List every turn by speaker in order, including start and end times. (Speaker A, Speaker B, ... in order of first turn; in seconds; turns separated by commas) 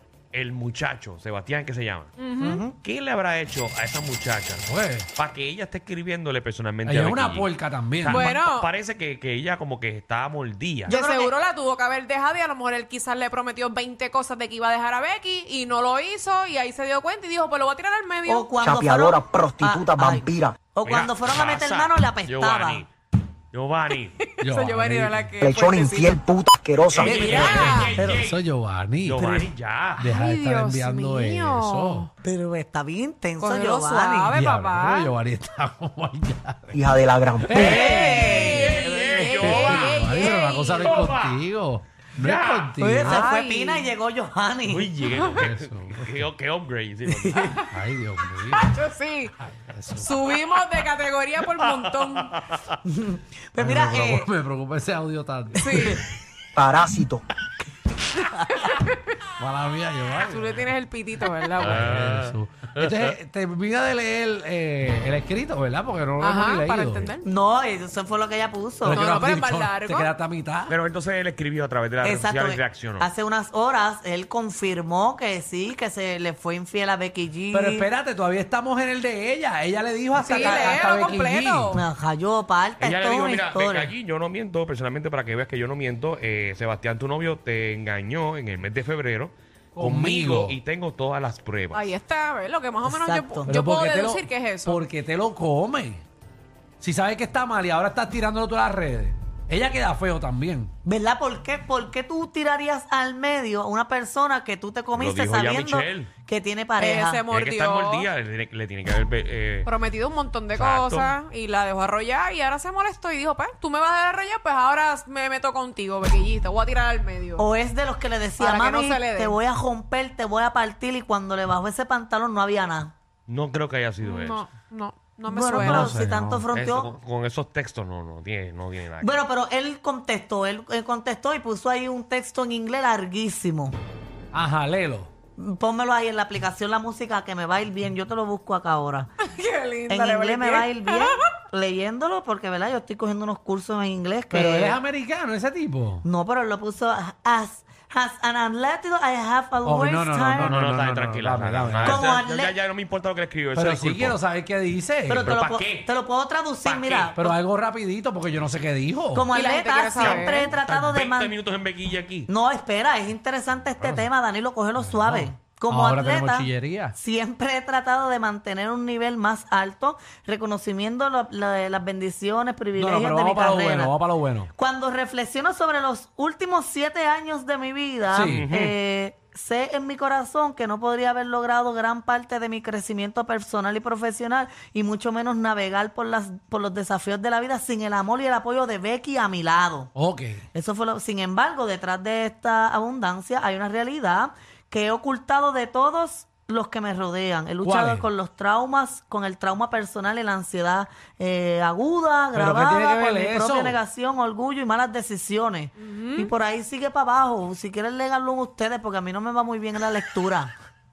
Speaker A: 0.3-2.1, Speaker B: 2.2-2.6, Speaker C: 2.4-2.7, Speaker A: 2.8-11.0, Speaker D: 4.6-5.1, Speaker D: 6.8-8.3, Speaker B: 8.1-8.7, Speaker B: 10.9-18.5, Speaker C: 10.9-11.3, Speaker C: 18.3-22.9, Speaker E: 18.6-20.6, Speaker A: 20.8-22.9, Speaker A: 23.5-24.2, Speaker B: 24.2-26.3, Speaker D: 24.4-25.3, Speaker E: 25.4-27.3, Speaker A: 26.9-28.4, Speaker D: 26.9-32.0, Speaker B: 27.1-28.0, Speaker A: 29.0-30.0, Speaker B: 30.0-32.1, Speaker C: 32.2-34.3, Speaker B: 33.4-35.1, Speaker D: 34.3-36.8, Speaker E: 36.7-38.0, Speaker D: 37.4-43.3, Speaker C: 37.6-38.5, Speaker B: 37.8-41.0, Speaker A: 38.1-40.0, Speaker A: 40.8-41.4, Speaker A: 42.2-42.7, Speaker C: 42.8-44.9, Speaker B: 43.0-43.9, Speaker A: 44.7-47.5, Speaker B: 45.0-45.4, Speaker D: 45.3-46.2, Speaker C: 47.2-47.5, Speaker B: 47.4-47.7, Speaker D: 47.7-48.7, Speaker B: 48.5-49.3, Speaker D: 49.5-50.1, Speaker B: 50.0-52.3, Speaker A: 51.4-52.6, Speaker C: 52.9-54.3, Speaker D: 53.6-56.0, Speaker B: 55.6-56.0, Speaker E: 56.5-57.2, Speaker B: 58.6-58.9, Speaker D: 59.4-60.7, Speaker B: 60.2-61.8, Speaker A: 61.6-63.1, Speaker D: 61.6-67.1, Speaker B: 66.2-67.2, Speaker C: 67.2-69.0, Speaker D: 68.8-70.7, Speaker B: 68.9-70.1, Speaker A: 70.7-73.1, Speaker C: 72.0-77.9, Speaker D: 77.5-81.8, Speaker B: 80.1-81.8, Speaker C: 80.3-80.7, Speaker C: 81.7-83.9, Speaker A: 82.8-91.9, Speaker D: 89.7-90.6, Speaker B: 91.7-94.8, Speaker C: 92.8-93.5, Speaker D: 93.5-96.0, Speaker D: 96.8-100.7, Speaker C: 100.8-107.2, Speaker A: 104.9-106.1, Speaker B: 106.8-108.1, Speaker A: 107.3-109.7, Speaker B: 109.6-117.4, Speaker A: 110.5-111.1, Speaker C: 117.4-122.9, Speaker B: 118.4-119.4, Speaker A: 123.3-124.5, Speaker B: 124.0-125.9, Speaker C: 125.3-126.9, Speaker D: 125.6-126.4, Speaker A: 126.5-129.2, Speaker C: 129.0-133.7, Speaker D: 134.3-135.1, Speaker C: 135.4-139.1, Speaker B: 139.2-141.2, Speaker C: 139.9-144.8, Speaker D: 144.3-146.0, Speaker C: 146.0-150.6, Speaker D: 149.6-152.0, Speaker A: 150.4-154.2, Speaker C: 151.8-152.5, Speaker D: 153.5-155.3, Speaker C: 155.1-157.4, Speaker A: 155.1-155.9, Speaker A: 156.6-157.2, Speaker D: 157.2-159.3, Speaker C: 159.1-161.3, Speaker B: 159.3-160.5, Speaker A: 160.0-162.3, Speaker C: 162.3-173.9, Speaker D: 163.8-164.1, Speaker D: 164.8-166.9, Speaker D: 172.8-174.5, Speaker C: 174.5-189.9, Speaker D: 178.1-178.4, Speaker A: 178.2-178.7, Speaker D: 189.9-190.4, Speaker C: 190.5-210.5, Speaker D: 197.6-198.1, Speaker D: 202.3-203.8, Speaker B: 205.8-206.3